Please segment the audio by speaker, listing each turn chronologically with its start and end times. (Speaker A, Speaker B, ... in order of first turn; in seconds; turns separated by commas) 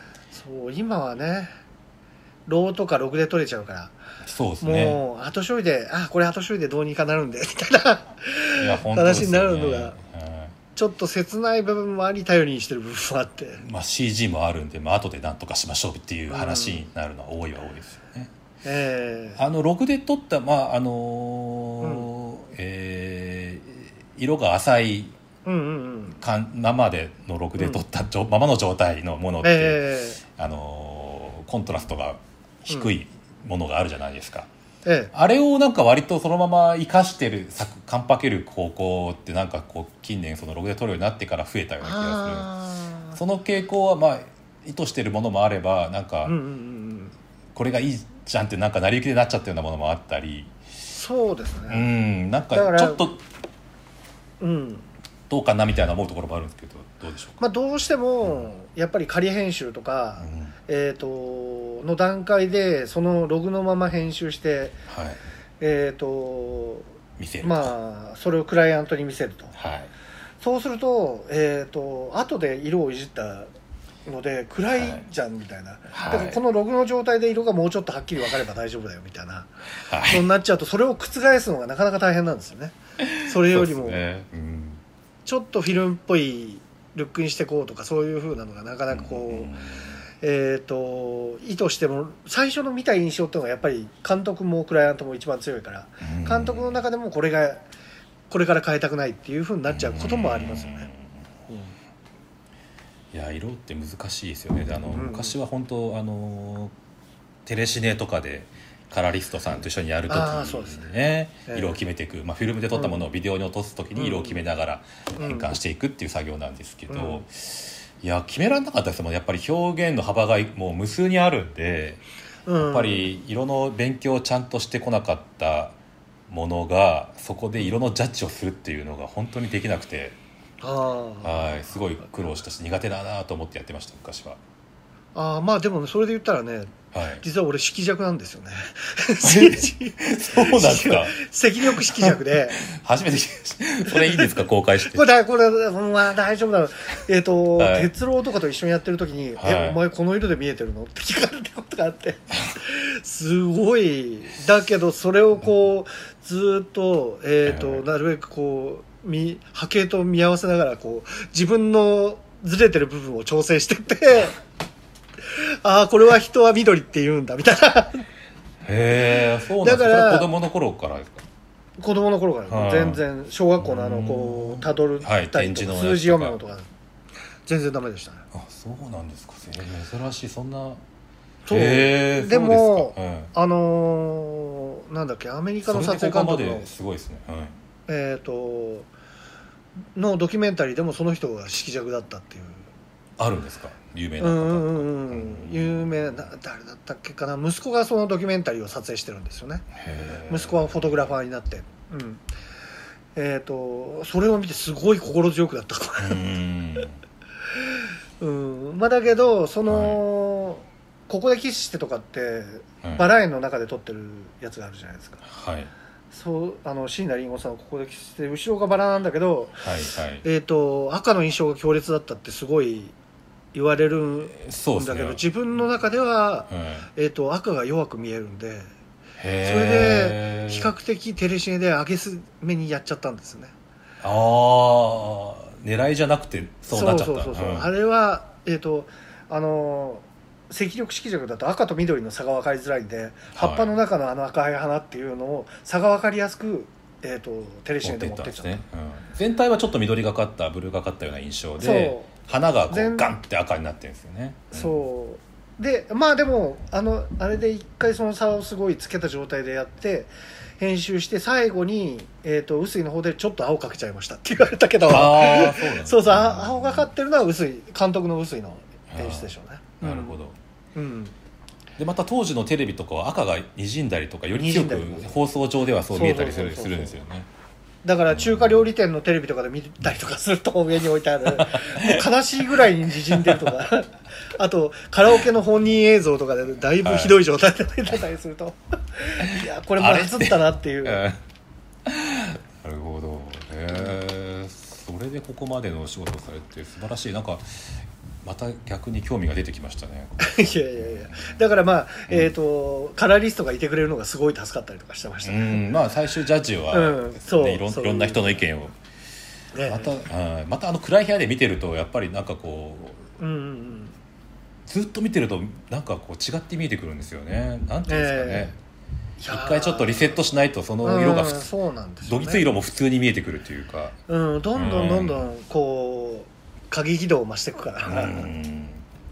Speaker A: 0.3-1.5, Speaker A: 2.5-3.9, Speaker B: 4.2-5.0, Speaker A: 4.6-10.0, Speaker B: 8.6-10.5, Speaker A: 10.7-13.6, Speaker B: 13.6-18.3, Speaker A: 16.3-16.8, Speaker A: 18.6-19.4, Speaker B: 19.4-25.1, Speaker A: 21.8-22.1, Speaker A: 25.4-26.2, Speaker B: 26.2-34.5, Speaker A: 29.4-30.2, Speaker A: 34.8-35.1, Speaker B: 35.1-42.5, Speaker A: 41.8-43.2, Speaker B: 43.1-46.4, Speaker A: 46.2-47.1, Speaker B: 47.5-50.5, Speaker A: 50.9-51.9, Speaker B: 51.7-53.2, Speaker A: 52.5-53.0, Speaker A: 54.4-54.9, Speaker B: 55.3-57.4, Speaker A: 57.4-64.8, Speaker B: 58.2-58.5, Speaker B: 60.2-60.5, Speaker B: 64.9-65.2, Speaker A: 65.6-66.9, Speaker B: 67.2-67.7, Speaker A: 67.4-69.5, Speaker B: 69.5-69.9, Speaker A: 70.4-73.5, Speaker A: 74.0-79.5, Speaker B: 74.7-75.0, Speaker B: 75.9-76.4, Speaker B: 79.9-80.3, Speaker A: 80.0-84.0, Speaker B: 83.0-84.8, Speaker A: 85.2-89.5, Speaker B: 88.9-90.0, Speaker A: 90.2-97.6, Speaker B: 96.0-96.8, Speaker A: 98.3-100.9, Speaker B: 99.7-101.2, Speaker A: 101.5-101.7, Speaker B: 103.1-106.7, Speaker A: 104.9-105.3, Speaker B: 107.4-122.0, Speaker A: 110.1-110.9, Speaker A: 111.5-111.8, Speaker A: 112.7-113.0, Speaker A: 113.9-114.4, Speaker A: 115.2-115.5, Speaker A: 116.9-117.2, Speaker A: 122.5-123.1, Speaker B: 122.6-125.8, Speaker B: 126.3-130.2, Speaker A: 130.6-131.5, Speaker B: 131.2-134.4, Speaker A: 135.1-142.6, Speaker B: 136.9-137.2, Speaker B: 139.2-145.0, Speaker A: 143.8-164.4, Speaker B: 147.6-147.9, Speaker B: 149.4-149.8, Speaker B: 157.4-157.8, Speaker A: 165.3-168.1, Speaker B: 168.6-171.2, Speaker A: 169.6-170.3, Speaker A: 171.8-176.7, Speaker B: 172.5-173.0, Speaker B: 173.6-176.4, Speaker A: 177.4-178.2, Speaker B: 178.3-180.8, Speaker A: 181.4-186.7, Speaker B: 181.5-183.3, Speaker B: 185.6-187.6, Speaker A: 187.9-188.9, Speaker A: 189.9-192.7, Speaker B: 193.2-196.1, Speaker A: 194.2-199.7, Speaker B: 199.7-201.1, Speaker A: 200.3-202.2, Speaker A: 203.2-206.2, Speaker B: 206.0-206.9, Speaker A: 207.6-215.2, Speaker B: 209.7-210.0, Speaker B: 212.8-213.1, Speaker B: 215.2-215.7, Speaker A: 216.1-219.7, Speaker B: 219.6-220.2, Speaker A: 220.2-222.9, Speaker A: 223.5-228.7, Speaker B: 224.3-225.2, Speaker B: 226.5-226.9, Speaker B: 229.2-230.7, Speaker A: 229.4-233.5, Speaker B: 234.0-237.7, Speaker A: 236.7-248.6, Speaker B: 243.3-243.7, Speaker B: 247.8-254.8, Speaker A: 251.6-253.1, Speaker A: 254.5-270.1, Speaker B: 264.9-266.9, Speaker B: 268.9-270.4, Speaker A: 270.7-271.1, Speaker B: 271.8-277.3, Speaker A: 274.3-275.1, Speaker A: 275.9-277.0, Speaker A: 277.8-291.0, Speaker B: 278.1-278.6, Speaker B: 281.3-282.0, Speaker B: 283.1-283.5, Speaker B: 286.8-287.2, Speaker B: 289.2-291.2, Speaker B: 291.8-301.4, Speaker A: 300.2-305.7, Speaker B: 305.2-308.8, Speaker A: 306.7-308.4, Speaker A: 309.5-309.9, Speaker B: 309.6-313.1, Speaker A: 313.2-313.9, Speaker B: 314.6-318.6, Speaker A: 317.9-318.5, Speaker A: 319.2-320.2, Speaker B: 319.3-321.5, Speaker A: 320.8-322.5, Speaker B: 322.1-323.9, Speaker A: 324.1-328.3, Speaker B: 324.5-325.2, Speaker B: 327.8-328.8